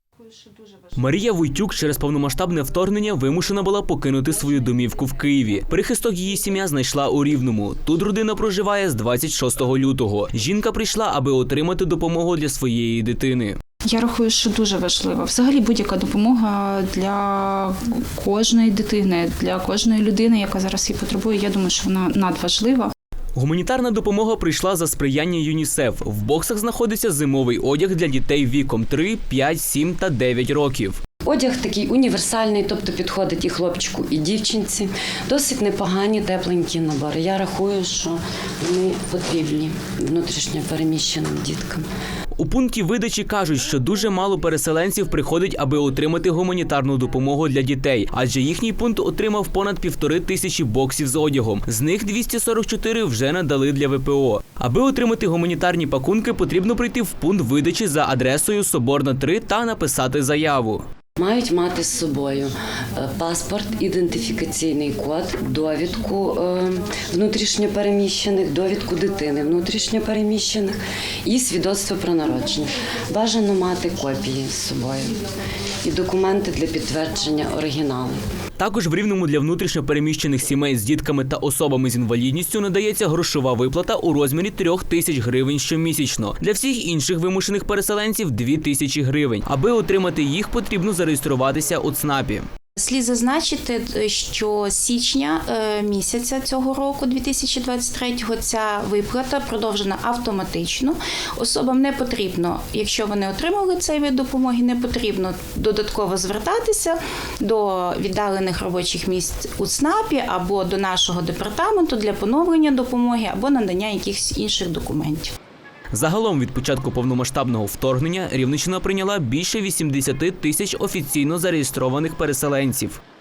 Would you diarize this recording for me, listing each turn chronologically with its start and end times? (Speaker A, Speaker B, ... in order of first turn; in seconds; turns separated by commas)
Speaker A: 0.9-13.6, Speaker B: 13.9-22.9, Speaker A: 23.3-31.0, Speaker C: 31.2-41.9, Speaker A: 42.4-60.8, Speaker C: 61.2-75.2, Speaker C: 75.8-78.2, Speaker A: 78.6-92.5, Speaker B: 92.8-115.3, Speaker A: 115.9-123.0